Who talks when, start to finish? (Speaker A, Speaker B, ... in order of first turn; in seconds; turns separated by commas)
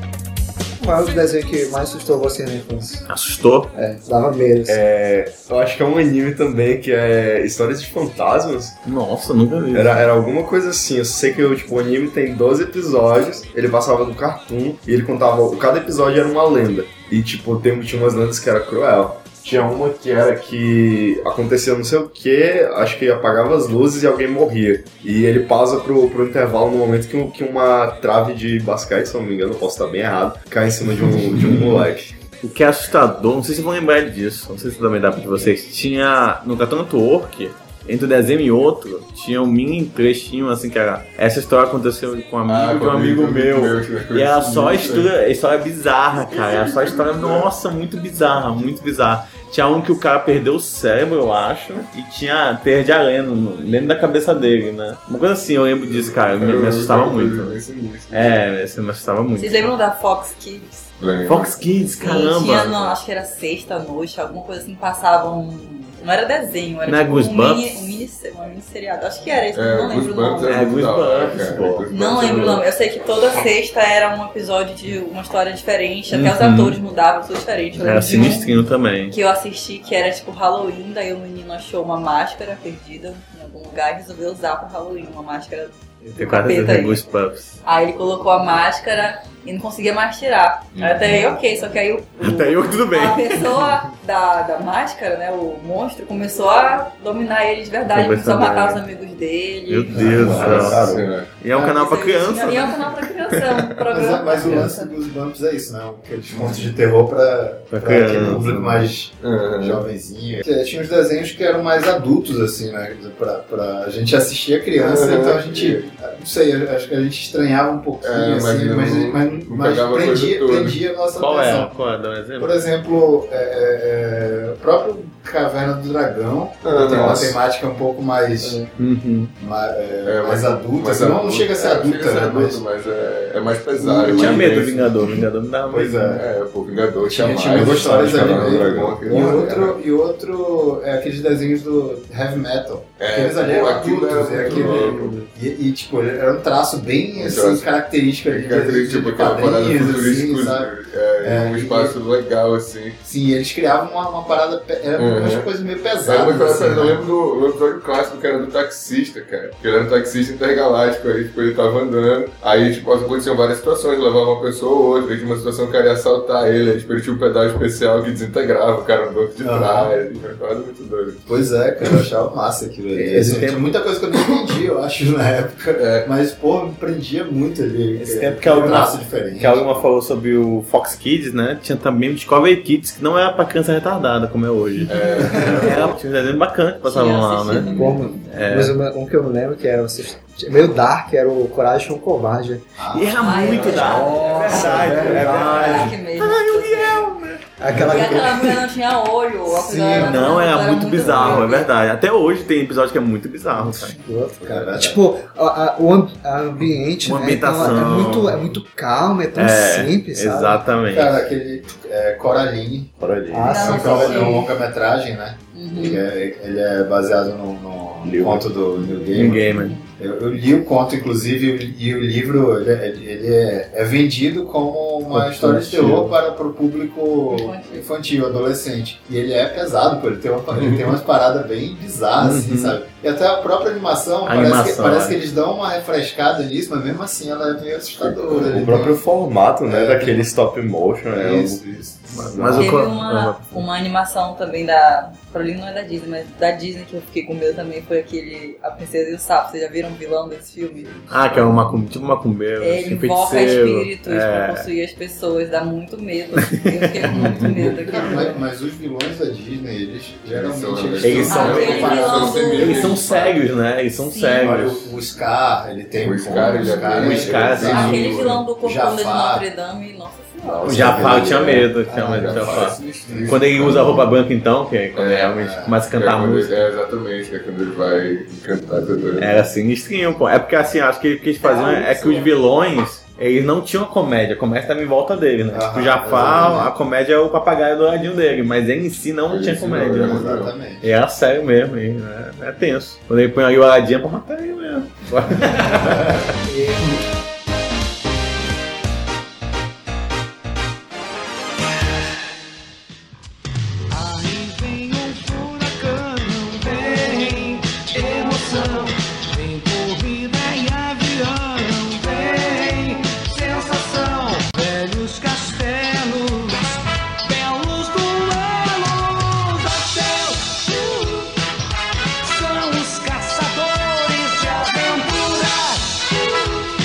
Speaker A: 0.8-3.1, Speaker B: 3.1-3.7, Speaker A: 3.7-4.8, Speaker C: 4.7-8.8, Speaker B: 8.8-10.1, Speaker C: 9.7-32.1, Speaker B: 32.4-57.6, Speaker D: 42.5-45.1, Speaker D: 46.3-47.5, Speaker D: 55.8-58.4, Speaker B: 58.1-59.7, Speaker E: 59.4-60.9, Speaker D: 61.0-61.6, Speaker B: 61.3-63.0, Speaker E: 62.0-70.7, Speaker B: 66.8-67.7, Speaker D: 69.5-72.7, Speaker B: 70.5-71.9, Speaker E: 71.9-87.0, Speaker B: 76.1-76.8, Speaker B: 77.8-79.2, Speaker B: 86.2-87.6, Speaker E: 87.7-100.6, Speaker B: 92.2-93.6, Speaker B: 97.9-98.8, Speaker B: 99.7-100.8, Speaker F: 99.9-101.0, Speaker C: 100.0-101.1, Speaker D: 100.2-101.3, Speaker B: 101.4-103.8, Speaker E: 101.5-104.9, Speaker F: 103.9-121.7, Speaker B: 104.5-104.7, Speaker D: 106.3-106.7, Speaker B: 107.7-108.5, Speaker D: 108.3-108.6, Speaker D: 109.2-109.8, Speaker D: 114.8-115.9, Speaker D: 118.0-120.8, Speaker B: 121.2-122.5, Speaker F: 122.4-128.7, Speaker D: 126.6-127.4, Speaker C: 126.9-127.3, Speaker A: 128.4-128.7, Speaker B: 128.8-129.3, Speaker F: 129.4-132.6, Speaker D: 130.1-135.1, Speaker F: 133.8-134.5, Speaker B: 134.0-136.2, Speaker F: 135.7-136.3, Speaker D: 136.1-139.8, Speaker F: 137.1-150.7, Speaker C: 137.4-139.1, Speaker A: 139.1-139.6, Speaker D: 143.0-145.2, Speaker D: 147.2-147.7, Speaker D: 148.3-153.0, Speaker F: 151.2-151.9, Speaker F: 153.0-157.0, Speaker D: 155.0-155.5, Speaker D: 156.0-171.3, Speaker F: 169.4-169.9, Speaker F: 171.3-179.8, Speaker A: 173.0-173.4, Speaker B: 173.2-173.8, Speaker D: 175.8-176.1, Speaker B: 177.9-188.7, Speaker D: 184.9-185.9, Speaker E: 185.1-185.4, Speaker E: 186.8-188.4, Speaker A: 187.7-192.8, Speaker F: 192.8-195.5, Speaker B: 192.9-197.5, Speaker E: 193.1-197.1, Speaker A: 193.7-195.9, Speaker C: 194.5-195.0, Speaker A: 197.6-198.6, Speaker E: 197.8-201.7, Speaker A: 199.5-200.3, Speaker B: 199.9-204.0, Speaker A: 203.8-210.7, Speaker F: 204.4-205.0, Speaker B: 207.0-208.4, Speaker B: 209.4-211.2, Speaker F: 210.8-212.9, Speaker C: 213.0-214.3, Speaker A: 213.3-214.3, Speaker E: 213.5-214.6, Speaker F: 213.5-239.0, Speaker E: 215.5-216.0, Speaker C: 218.0-218.6, Speaker E: 218.8-219.9, Speaker B: 219.1-219.8, Speaker B: 225.1-226.2, Speaker E: 227.3-227.9, Speaker D: 230.5-231.0, Speaker B: 232.2-232.8, Speaker B: 234.3-235.2, Speaker C: 238.0-241.6, Speaker F: 239.7-240.3, Speaker F: 241.1-242.6, Speaker B: 242.1-243.6, Speaker C: 242.3-242.8, Speaker E: 242.6-250.9, Speaker B: 251.1-254.7, Speaker E: 252.6-258.4, Speaker B: 256.4-257.1, Speaker D: 257.1-257.8, Speaker F: 257.4-262.8, Speaker D: 260.3-263.4, Speaker B: 261.0-264.9, Speaker E: 261.3-263.0, Speaker E: 264.0-264.5, Speaker F: 264.4-269.5, Speaker D: 266.0-268.1, Speaker E: 266.5-267.0, Speaker B: 266.9-268.4, Speaker E: 267.6-271.3, Speaker C: 270.4-271.7, Speaker B: 270.6-276.7, Speaker F: 270.7-271.5, Speaker F: 272.0-274.0, Speaker D: 272.1-273.9, Speaker D: 275.0-275.4, Speaker F: 275.4-275.8, Speaker D: 275.9-279.3, Speaker B: 279.2-296.3, Speaker E: 281.4-282.3, Speaker F: 285.5-286.8, Speaker D: 289.3-290.5, Speaker F: 289.8-290.9, Speaker A: 296.4-296.9, Speaker G: 303.9-321.3, Speaker G: 322.2-326.5